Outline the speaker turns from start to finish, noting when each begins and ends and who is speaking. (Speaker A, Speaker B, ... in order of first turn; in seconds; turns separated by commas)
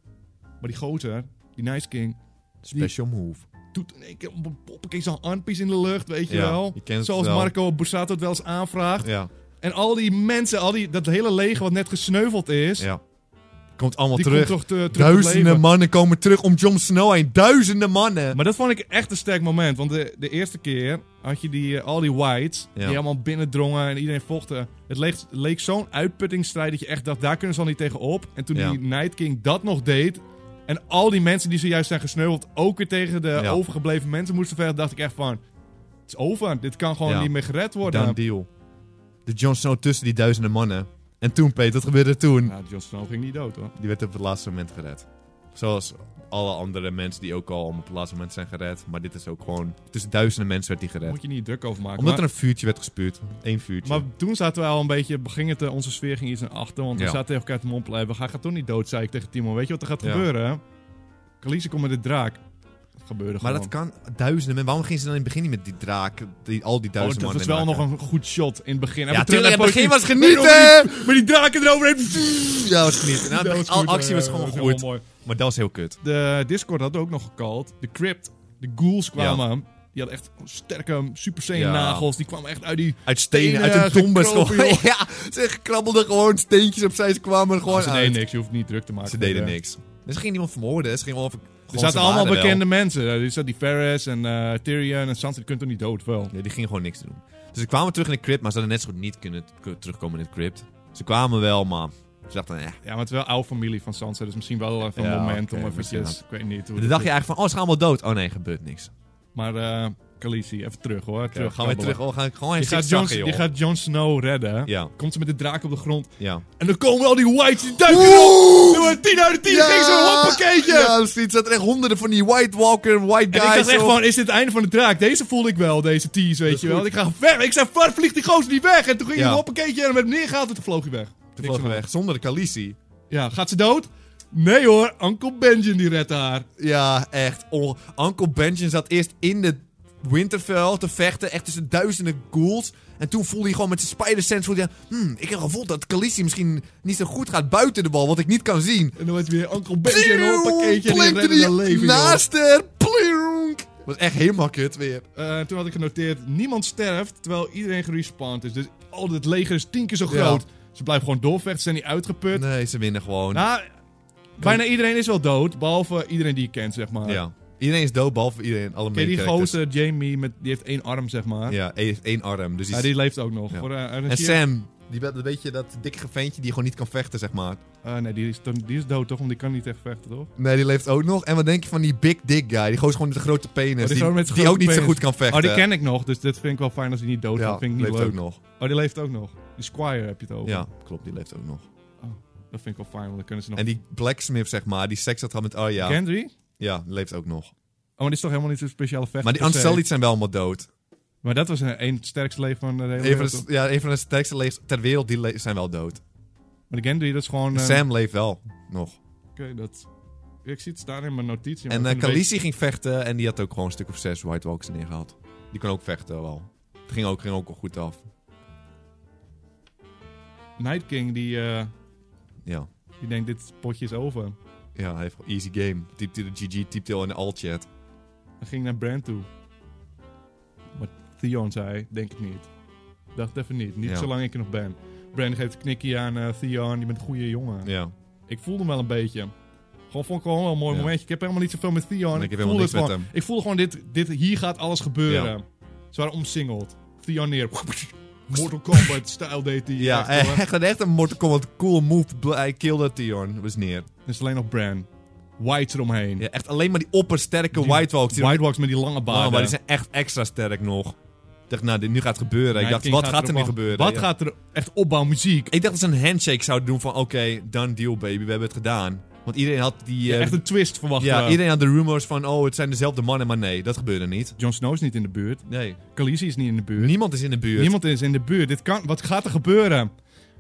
Speaker A: 0.6-2.2, Speaker B: 2.6-3.4, Speaker A: 3.7-9.1, Speaker B: 6.3-7.5, Speaker B: 9.0-9.3, Speaker A: 9.6-12.9, Speaker B: 13.8-18.4, Speaker A: 14.1-15.6, Speaker A: 18.3-35.4, Speaker B: 28.5-28.8, Speaker A: 36.1-38.2, Speaker B: 37.0-38.5, Speaker B: 39.2-42.5, Speaker A: 42.4-43.7, Speaker B: 43.8-51.2, Speaker A: 51.0-52.2, Speaker B: 52.0-54.0, Speaker A: 53.8-60.6, Speaker B: 56.9-57.2, Speaker B: 60.0-60.3, Speaker A: 61.4-62.4, Speaker A: 63.0-63.7, Speaker B: 63.4-67.8, Speaker A: 67.0-75.0, Speaker B: 69.1-71.1, Speaker B: 72.1-76.0, Speaker A: 76.0-84.8, Speaker B: 79.2-79.4, Speaker B: 81.5-82.1, Speaker B: 83.0-88.2, Speaker A: 87.7-89.6, Speaker B: 89.0-92.6, Speaker A: 91.7-96.3, Speaker B: 96.3-102.8, Speaker A: 102.8-107.1, Speaker B: 104.9-106.2, Speaker B: 106.8-108.9, Speaker A: 109.3-112.0, Speaker B: 111.3-113.5, Speaker A: 112.5-121.0, Speaker B: 114.7-114.9, Speaker B: 116.2-116.4, Speaker B: 117.8-124.0, Speaker A: 123.3-131.8, Speaker B: 126.5-126.9, Speaker B: 129.1-129.4, Speaker B: 131.4-132.8, Speaker A: 133.1-136.4, Speaker B: 136.6-149.0, Speaker A: 149.0-152.2, Speaker B: 149.8-155.0, Speaker A: 155.2-162.4, Speaker B: 160.1-160.4, Speaker B: 162.3-163.4, Speaker A: 163.3-163.7, Speaker A: 164.4-167.2, Speaker B: 167.0-169.6, Speaker A: 168.9-171.6, Speaker B: 171.5-172.9, Speaker A: 172.7-174.4, Speaker B: 173.5-177.6, Speaker A: 177.8-180.3, Speaker B: 180.4-185.7, Speaker A: 183.8-190.7, Speaker B: 187.3-188.4, Speaker B: 190.4-191.7, Speaker A: 192.0-193.6, Speaker B: 193.5-196.0, Speaker A: 195.8-196.3, Speaker B: 196.6-197.5, Speaker A: 198.0-199.8, Speaker B: 199.2-200.7, Speaker A: 201.2-203.4, Speaker B: 203.0-206.0, Speaker A: 206.7-207.8, Speaker B: 207.5-209.0, Speaker A: 209.3-209.9, Speaker A: 210.4-212.2, Speaker B: 211.7-218.0, Speaker A: 220.6-221.7, Speaker A: 223.0-224.3, Speaker B: 224.7-227.7, Speaker A: 228.4-229.3, Speaker A: 230.8-232.5, Speaker A: 233.1-237.7, Speaker B: 233.8-234.1, Speaker B: 237.6-237.9, Speaker A: 238.3-239.3, Speaker A: 239.9-250.4, Speaker B: 242.1-243.1, Speaker B: 245.1-245.3, Speaker B: 248.3-248.9, Speaker B: 249.8-253.9, Speaker A: 254.1-254.9, Speaker A: 255.4-256.2, Speaker B: 256.2-258.4, Speaker A: 257.5-259.5, Speaker B: 259.1-261.0, Speaker B: 261.5-264.1, Speaker A: 262.5-265.5, Speaker B: 265.5-270.4, Speaker A: 270.1-271.4, Speaker B: 270.9-274.4, Speaker A: 274.4-276.9, Speaker B: 275.5-275.8, Speaker B: 276.8-277.8, Speaker A: 277.5-279.9